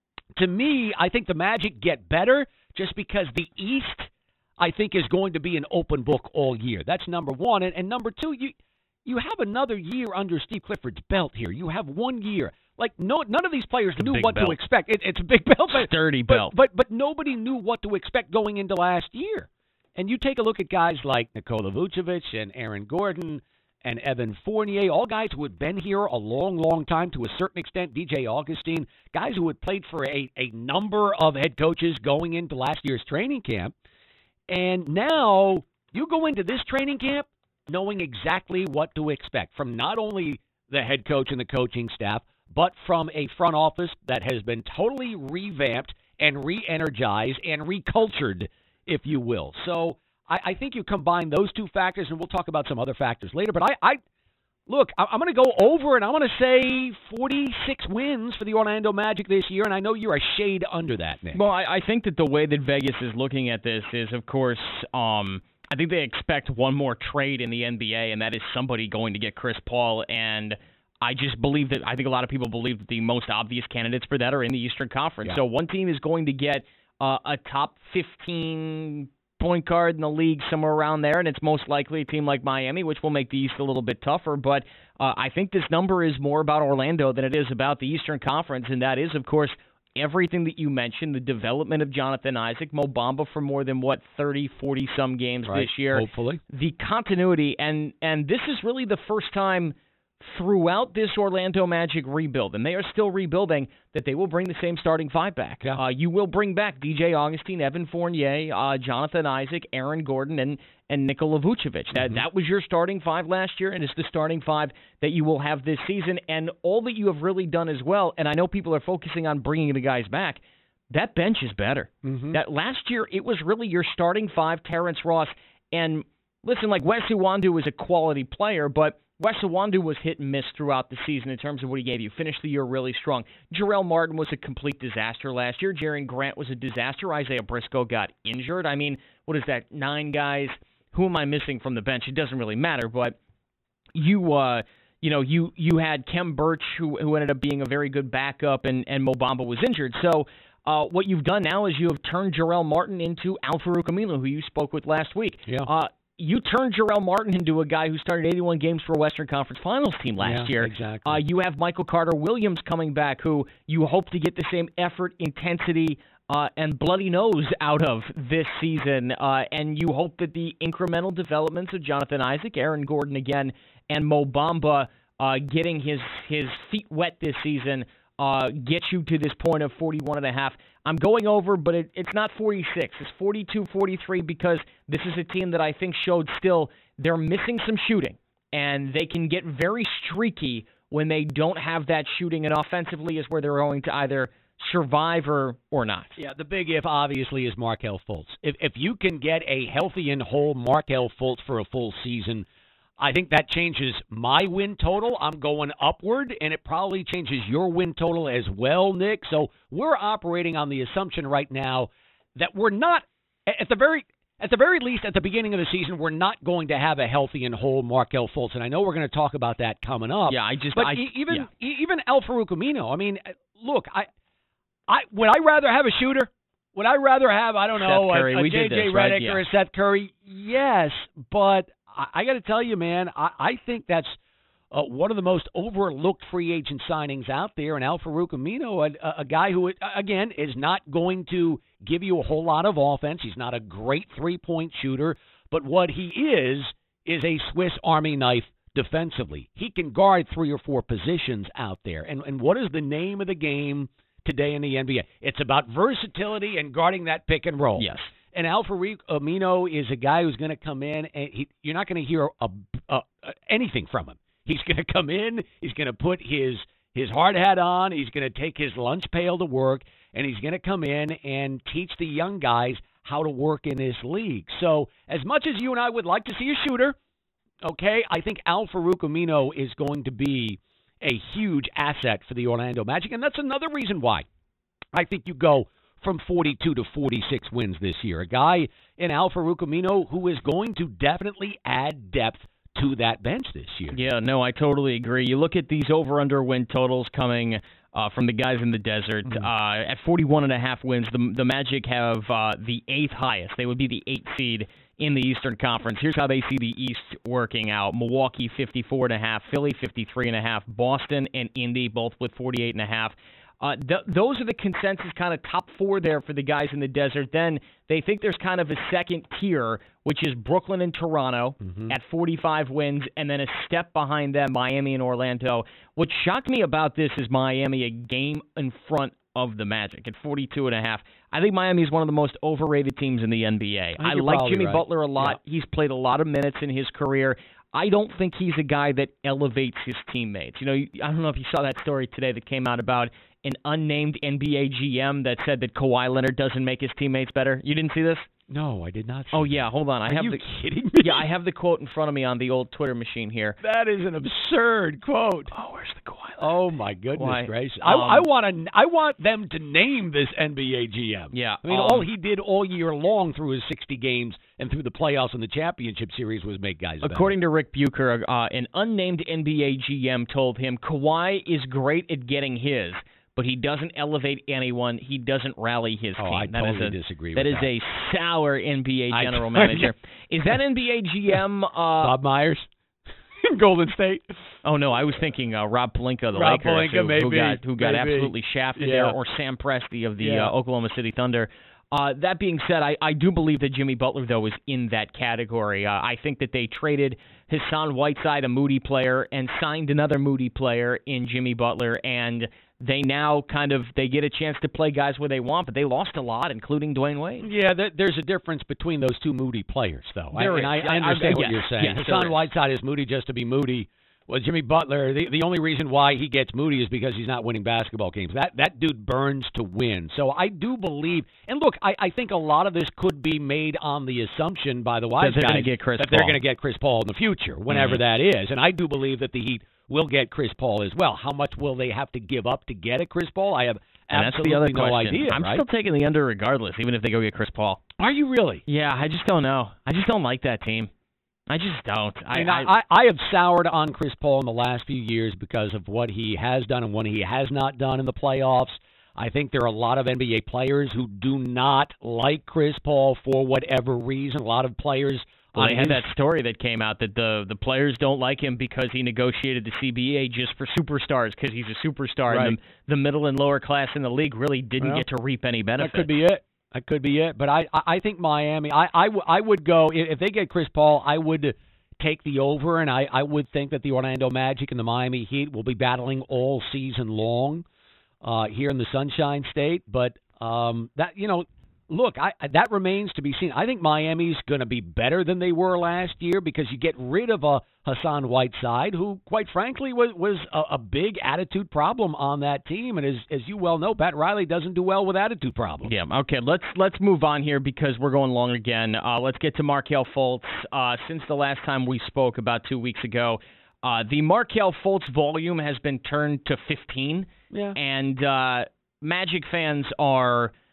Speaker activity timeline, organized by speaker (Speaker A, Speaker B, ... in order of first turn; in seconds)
Speaker A: 0.3-33.7, 34.5-54.0, 54.7-61.4, 95.5-96.4, 122.0-122.4, 160.2-161.2, 196.2-202.4, 203.0-224.1, 224.9-234.2, 234.7-277.0, 277.6-284.2, 284.9-294.0, 321.6-321.9, 334.0-335.4, 348.5-351.3, 353.6-355.5, 356.4-367.4, 376.2-377.7, 379.1-379.9, 382.0-382.7, 383.4-384.3, 386.3-389.2, 390.2-390.5, 407.4-435.6, 438.0-438.6, 442.3-456.0, 462.3-462.6, 465.8-477.6, 478.2-495.9, 507.5-507.8
Speaker B: 14.0-14.6, 15.7-16.5, 61.3-143.2, 143.9-196.2, 220.3-221.5, 227.8-229.4, 257.8-258.1, 293.9-348.3, 349.3-350.4, 351.0-353.6, 355.5-356.6, 357.1-358.3, 361.3-362.1, 367.0-382.1, 384.6-407.5, 410.3-412.4, 425.2-426.4, 427.7-428.0, 434.1-437.8, 438.7-440.9, 441.5-442.7, 455.6-466.1, 495.8-510.5